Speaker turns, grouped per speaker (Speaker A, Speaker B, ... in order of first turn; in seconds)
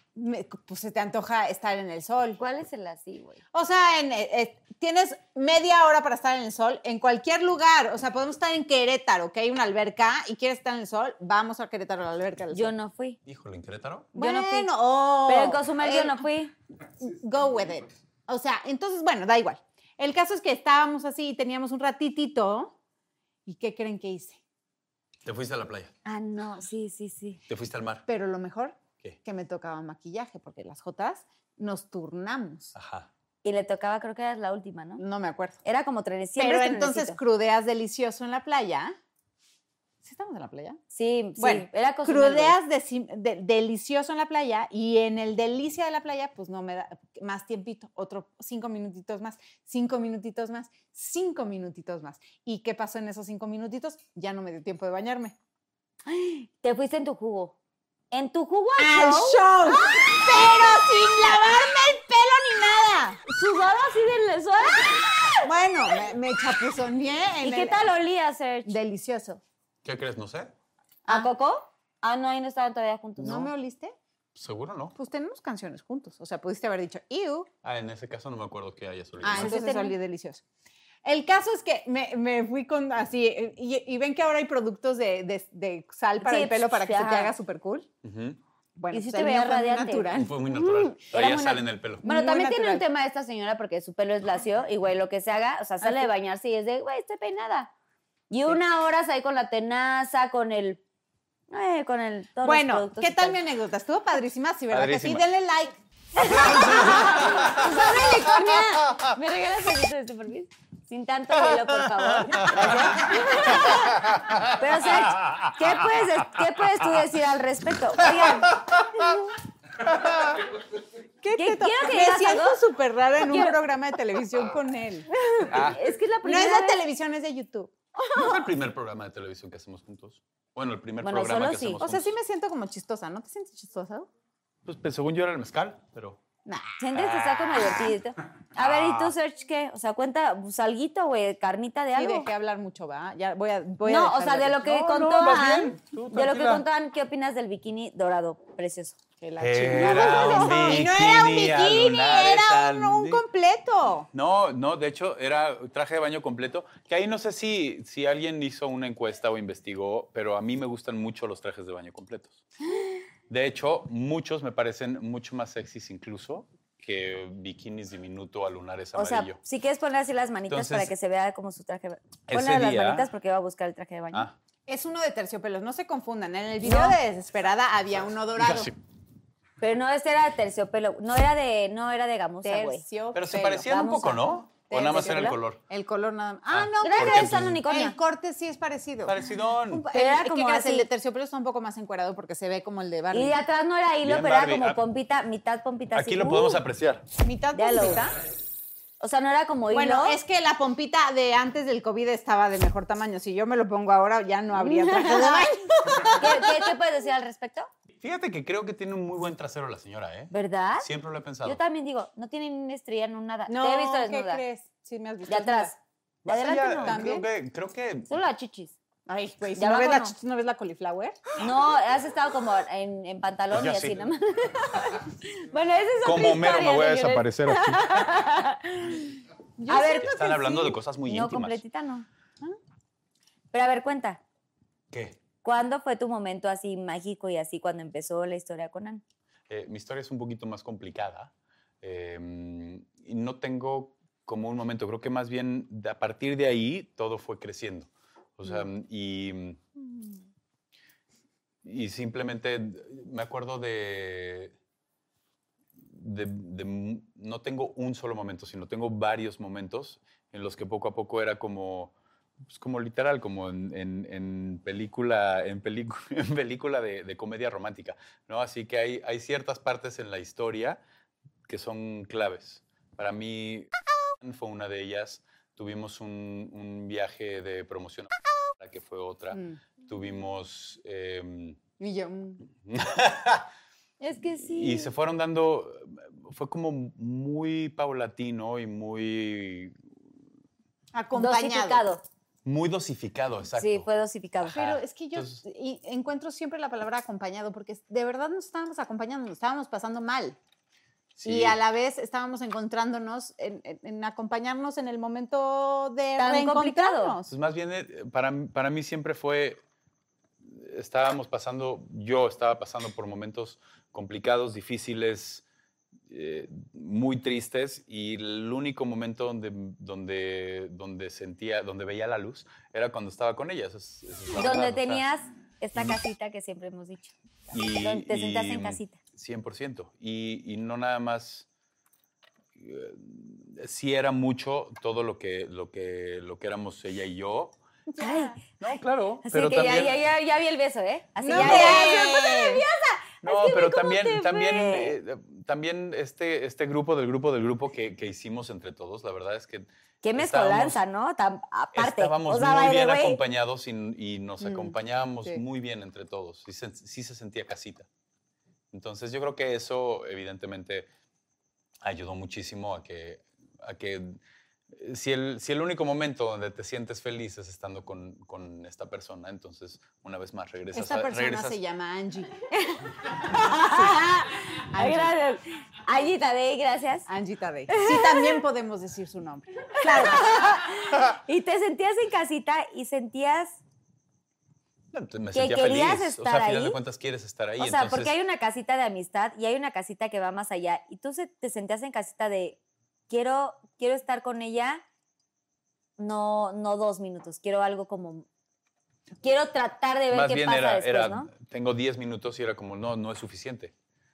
Speaker A: 0.1-2.4, 3.5-12.7, 14.2-16.2, 17.0-22.8, 23.5-24.4, 28.1-32.7, 35.0-35.6, 36.4-39.0, 40.0-40.8, 41.4-55.4, 58.8-63.2, 65.4-67.8, 68.7-69.4, 73.2-74.0, 75.0-77.5, 79.2-80.4, 81.0-87.9, 88.8-90.3, 91.2-92.8, 95.8-96.1, 102.4-107.3, 121.2-125.1, 126.2-127.7, 131.8-134.1, 136.5-136.8, 141.9-144.7, 149.2-154.1, 174.7-178.8, 182.4-183.7, 184.7-189.2, 189.7-193.4, 197.2-198.2, 199.7-206.7, 213.5-215.7, 216.8-217.3, 219.1-221.3, 229.6-230.6, 279.3-279.6, 281.8-282.4, 290.9-291.8, 294.5-300.4, 301.2-307.3, 337.9-338.4, 341.2-342.6, 354.4-355.4, 370.7-372.3, 373.5-374.1, 374.7-375.1, 377.1-380.4
Speaker B: 2.4-3.4, 12.5-13.2, 14.2-14.7, 15.3-16.5, 26.1-27.4, 33.4-35.0, 35.6-37.2, 40.9-42.6, 56.1-57.6, 58.1-61.0, 63.3-65.5, 67.4-68.7, 71.1-73.5, 79.3-80.0, 86.2-87.3, 88.9-91.3, 92.0-97.7, 98.3-100.8, 101.5-103.4, 106.2-119.2, 121.4-122.6, 123.2-123.5, 125.1-126.8, 128.0-128.4, 131.0-131.8, 136.8-142.3, 143.8-149.0, 150.0-150.7, 168.9-174.3, 176.6-177.0, 179.6-182.8, 183.7-185.4, 186.8-188.0, 189.9-190.9, 193.1-196.6, 197.5-198.1, 199.0-200.2, 204.6-205.5, 206.1-207.7, 210.3-210.9, 211.4-214.4, 215.3-217.0, 218.1-218.8, 219.6-220.1, 221.4-232.1, 233.5-234.2, 235.4-239.0, 284.0-284.9, 291.1-292.0, 293.6-294.6, 306.2-307.2, 324.4-329.0, 338.0-338.4, 339.2-345.0, 350.0-353.2, 372.5-377.1, 377.7-378.4, 379.8-383.6, 385.3-386.8, 387.6-392.6, 393.1-394.8, 396.0-398.3, 399.2-401.3
Speaker C: 13.3-14.1, 25.2-25.9, 27.5-28.0, 32.8-33.1, 69.8-70.5, 74.3-75.0, 77.6-79.6, 88.0-88.4, 90.1-92.0, 104.7-105.2, 106.4-107.4, 112.2-112.8, 119.9-120.2, 125.5-125.8, 128.2-132.2, 134.7-136.2, 136.9-137.8, 138.6-139.2, 144.7-146.6, 149.4-153.2, 154.1-162.4, 163.3-169.4, 170.5-170.9, 172.3-173.1, 178.4-178.8, 183.1-185.6, 186.5-187.6, 189.1-189.9, 194.0-194.8, 195.9-197.1, 208.0-211.6, 216.2-218.1, 223.5-224.1, 226.0-228.0, 230.0-231.6, 234.9-235.2, 239.5-249.6, 251.6-254.5, 255.9-261.9, 262.5-270.8, 271.5-273.7, 274.2-281.6, 282.6-283.5, 284.4-289.8, 292.4-293.9, 294.4-295.4, 301.2-301.6, 307.3-309.6, 310.4-315.4, 316.1-325.0, 327.5-331.5, 332.6-337.6, 338.6-340.0, 341.3-341.9, 343.2-350.8, 351.7-357.9, 358.7-360.9, 361.8-364.2, 364.7-371.6, 384.9-388.1, 400.1-403.7